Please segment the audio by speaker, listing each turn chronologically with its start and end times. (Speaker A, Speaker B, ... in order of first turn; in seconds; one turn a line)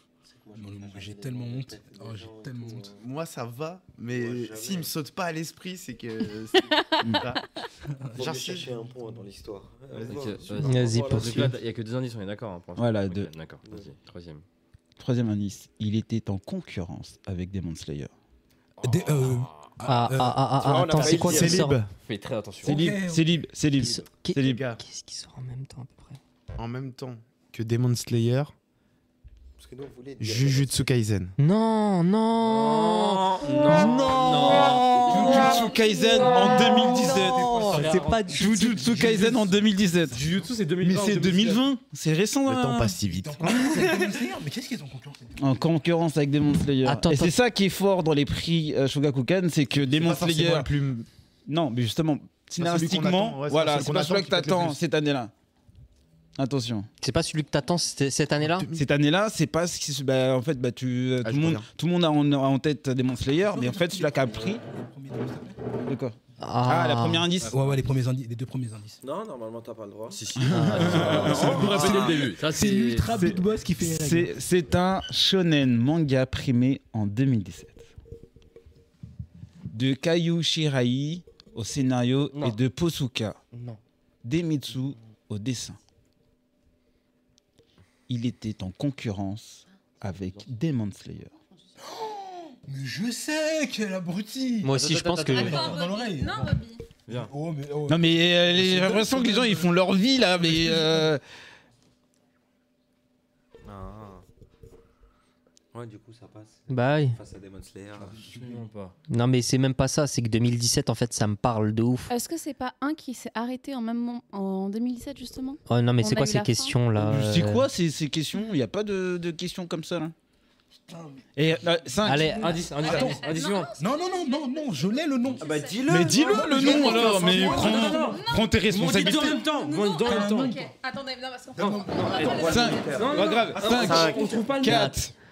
Speaker A: 0.2-3.0
Speaker B: 0.5-2.9
Speaker C: 2.9-7.4
Speaker A: 4.1-4.9
Speaker D: 6.5-7.6
Speaker B: 7.9-8.2
Speaker A: 8.1-11.6
Speaker C: 8.1-8.7
Speaker C: 9.9-10.6
Speaker E: 10.1-14.4
Speaker F: 10.6-11.6
Speaker G: 12.8-13.3
Speaker G: 15.0-18.1
Speaker B: 18.8-20.8
Speaker F: 19.8-21.8
Speaker A: 20.6-21.7
Speaker E: 21.0-22.8
Speaker C: 21.0-21.9
Speaker B: 22.6-23.3
Speaker G: 22.6-24.6
Speaker F: 23.8-26.2
Speaker C: 24.4-24.8
Speaker C: 26.6-28.5
Speaker A: 29.6-30.9
Speaker C: 30.2-31.3
Speaker F: 31.4-35.6
Speaker E: 32.4-35.6
Speaker G: 33.7-40.2
Speaker D: 35.5-37.3
Speaker F: 36.7-39.0
Speaker E: 37.0-38.4
Speaker B: 37.6-37.9
Speaker B: 38.5-40.5
Speaker E: 40.1-41.6
Speaker G: 40.8-43.0
Speaker C: 42.5-43.9
Speaker B: 43.1-45.6
Speaker G: 45.4-50.7
Speaker F: 46.8-47.3
Speaker C: 49.8-51.1
Speaker G: 51.5-55.3
Speaker C: 52.6-54.8
Speaker G: 56.4-56.9
Speaker F: 57.0-58.7
Speaker C: 58.6-58.8
Speaker G: 58.7-64.6
Speaker C: 61.2-61.7
Speaker B: 63.5-65.6
Speaker G: 65.8-67.6
Speaker F: 66.4-67.3
Speaker B: 67.4-69.0
Speaker A: 69.0-72.3
Speaker E: 70.1-73.1
Speaker G: 70.3-71.8
Speaker F: 70.5-71.5
Speaker B: 70.9-74.3
Speaker G: 73.1-77.9
Speaker G: 79.7-83.4
Speaker E: 83.5-83.8
Speaker G: 84.2-85.8
Speaker G: 88.1-91.3
Speaker B: 91.8-94.7
Speaker F: 94.6-95.7
Speaker E: 94.7-95.8
Speaker D: 95.3-96.8
Speaker B: 95.3-99.7
Speaker G: 97.9-101.2
Speaker B: 100.3-101.1
Speaker A: 103.6-104.2
Speaker A: 105.7-108.3
Speaker F: 106.7-107.2
Speaker B: 108.0-108.6
Speaker E: 108.3-109.0
Speaker F: 109.1-112.1
Speaker D: 112.1-116.8
Speaker F: 115.7-117.7
Speaker G: 116.9-120.1
Speaker B: 120.9-128.2
Speaker G: 121.3-122.4
Speaker F: 122.0-122.6
Speaker E: 122.3-123.7
Speaker D: 122.6-133.6
Speaker A: 125.4-127.6
Speaker G: 125.9-129.4
Speaker E: 126.7-130.6
Speaker B: 128.7-129.4
Speaker B: 130.0-130.7
Speaker B: 131.6-132.3
Speaker E: 131.6-135.0
Speaker A: 131.9-134.5
Speaker G: 132.4-135.1